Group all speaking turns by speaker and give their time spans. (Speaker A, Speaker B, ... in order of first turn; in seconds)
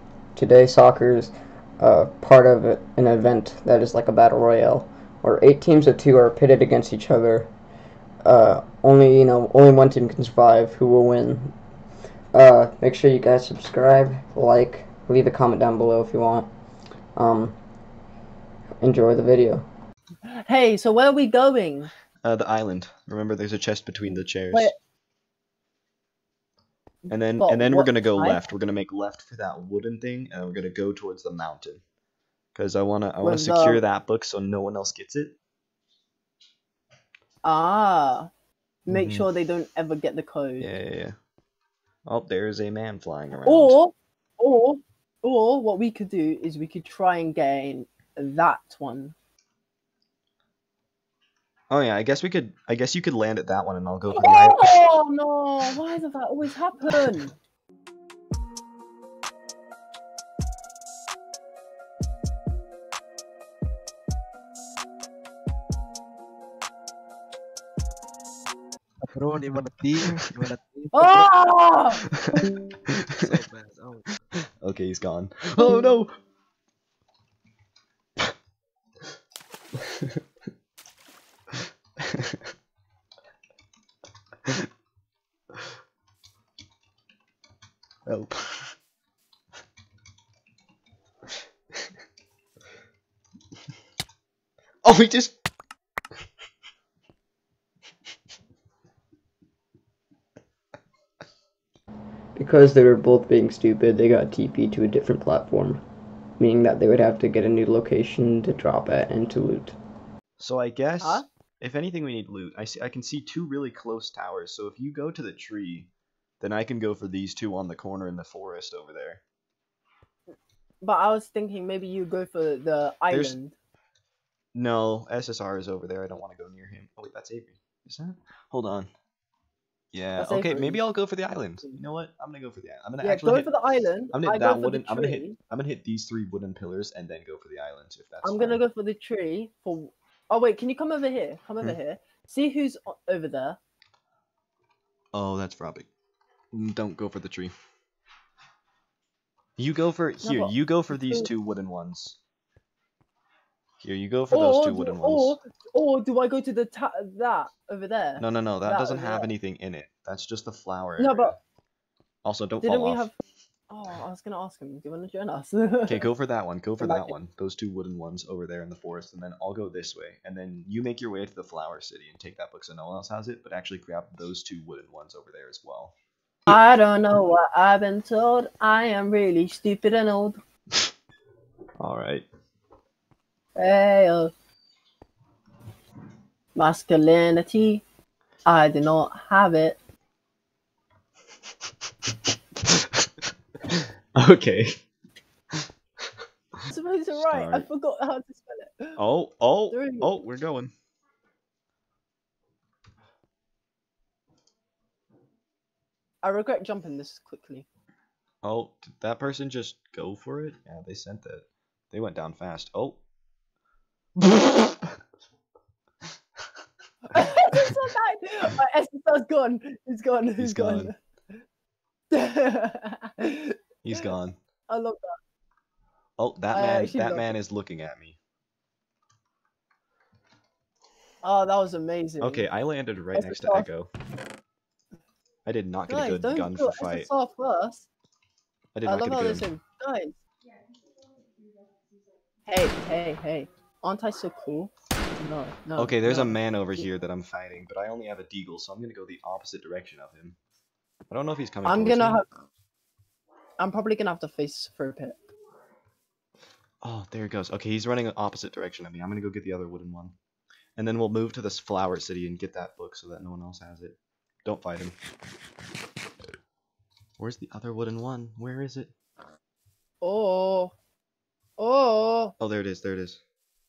Speaker A: 0.3-7.5, 8.2-11.6, 12.3-16.5, 17.2-17.6, 18.8-19.7, 102.4-105.8, 106.4-109.8
Speaker B: 20.3-21.9, 27.1-28.4, 33.2-33.8, 37.4-38.3, 38.9-40.7, 43.5-49.1, 54.1-57.3, 70.9-72.0, 75.7-75.9, 120.3-123.5, 130.2-130.8, 133.0-135.4, 138.2-143.6, 150.2-151.3, 154.3-159.3, 161.0-161.4, 162.6-163.2, 163.7-166.1, 166.8-167.2, 176.5-180.4, 183.6-184.3, 186.6-187.8, 188.5-189.8, 196.7-199.0, 199.7-200.1, 206.2-207.7, 217.1-220.9, 222.1-224.0, 224.7-225.2, 226.5-227.3, 231.2-232.5, 233.2-233.7, 235.9-237.9, 238.8-240.2, 242.5-246.8, 251.7-252.2, 253.6-255.2, 270.0-270.7, 271.6-272.3
Speaker C: 22.2-24.7, 27.1-31.8, 32.5-35.4, 38.9-39.3, 40.6-41.2, 42.1-43.8, 51.7-54.8, 57.0-57.3, 72.2-73.4, 74.6-76.2, 79.8-80.2, 82.0-82.5, 88.1-88.7, 94.8-95.4, 110.4-115.9, 116.4-119.2, 123.1-123.3, 124.5-128.9, 129.9-133.5, 134.1-138.6, 145.1-145.9, 146.5-147.5, 149.6-152.2, 153.8-155.4, 158.2-161.4, 162.2-163.1, 165.9-175.9, 181.8-182.3, 192.6-193.1, 193.7-194.8, 195.5-196.1, 197.1-197.7, 199.0-200.7, 208.4-213.0, 214.2-215.0, 217.1-217.6, 220.4-220.9, 223.8-224.4, 226.2-228.2, 232.2-233.9, 235.4-237.1, 238.8-239.5, 245.8-250.4, 251.1-252.2, 256.8-260.1, 260.8-265.0, 267.2-268.9, 272.4-273.2
Speaker D: 69.1-71.4, 73.2-74.1